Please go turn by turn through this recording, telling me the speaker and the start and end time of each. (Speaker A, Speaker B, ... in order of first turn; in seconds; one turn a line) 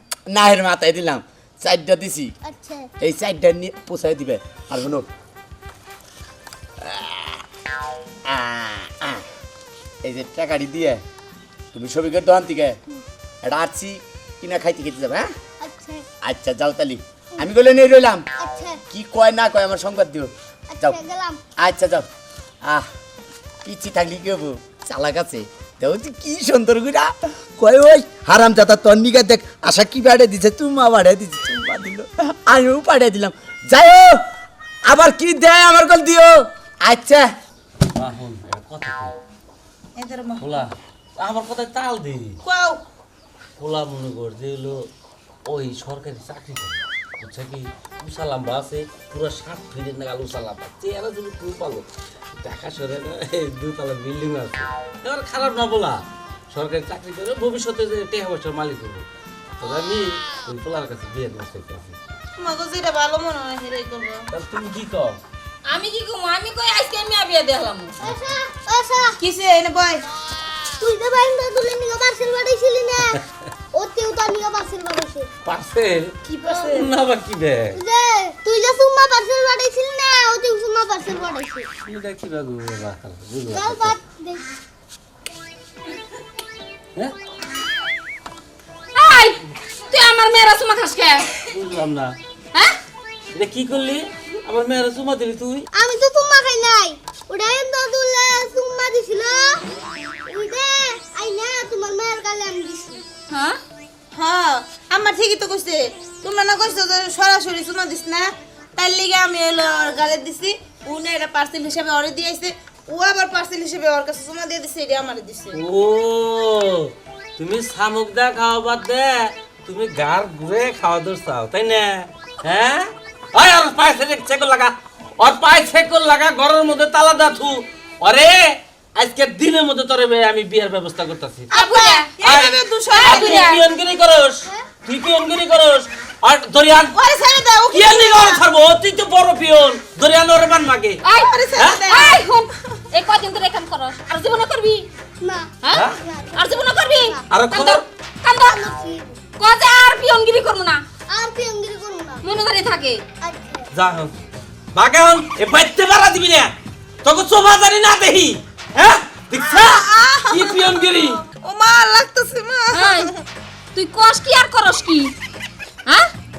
Speaker A: 0.3-2.3
Speaker B: 2.4-2.9
Speaker A: 3.0-5.0
Speaker A: 6.8-7.4
Speaker A: 8.2-9.2
Speaker A: 10.0-11.0
Speaker A: 11.7-12.8
Speaker A: 13.4-15.3
Speaker B: 15.6-16.1
Speaker A: 16.2-18.2
Speaker B: 18.4-18.8
Speaker A: 18.9-21.0
Speaker B: 20.7-21.4
Speaker A: 21.6-22.1
Speaker A: 22.6-22.9
Speaker A: 23.6-34.2
Speaker A: 34.8-37.3
Speaker C: 37.9-39.1
Speaker D: 40.0-40.6
Speaker C: 40.4-42.4
Speaker D: 42.4-42.8
Speaker C: 43.6-44.9
Speaker C: 45.4-51.9
Speaker C: 52.4-59.0
Speaker C: 59.6-62.0
Speaker D: 62.4-64.3
Speaker C: 64.3-65.2
Speaker E: 65.7-68.0
Speaker B: 68.0-69.2
Speaker D: 69.2-70.0
Speaker B: 70.8-73.2
Speaker B: 73.7-75.3
Speaker C: 75.4-77.8
Speaker D: 76.3-76.9
Speaker B: 76.6-76.9
Speaker B: 77.7-81.7
Speaker C: 81.8-84.0
Speaker B: 83.4-84.5
Speaker E: 88.9-91.3
Speaker C: 91.5-92.2
Speaker E: 92.5-92.8
Speaker C: 93.3-95.7
Speaker B: 95.7-99.6
Speaker B: 100.2-103.0
Speaker E: 103.3-103.6
Speaker D: 104.1-115.6
Speaker C: 115.5-131.5
Speaker D: 131.5-133.5
Speaker E: 131.5-132.1
Speaker C: 132.2-136.9
Speaker E: 132.9-133.6
Speaker D: 136.9-138.4
Speaker C: 137.7-141.0
Speaker E: 141.0-144.9
Speaker D: 141.1-142.3
Speaker C: 141.5-141.9
Speaker B: 145.2-147.2
Speaker E: 145.6-148.6
Speaker C: 145.7-146.0
Speaker C: 147.3-147.8
Speaker B: 148.3-149.2
Speaker E: 149.4-150.8
Speaker B: 151.1-152.3
Speaker E: 152.2-153.0
Speaker B: 153.2-153.7
Speaker C: 153.7-154.1
Speaker C: 154.7-156.5
Speaker C: 157.0-161.2
Speaker D: 159.3-163.2
Speaker E: 162.7-163.1
Speaker E: 163.7-165.1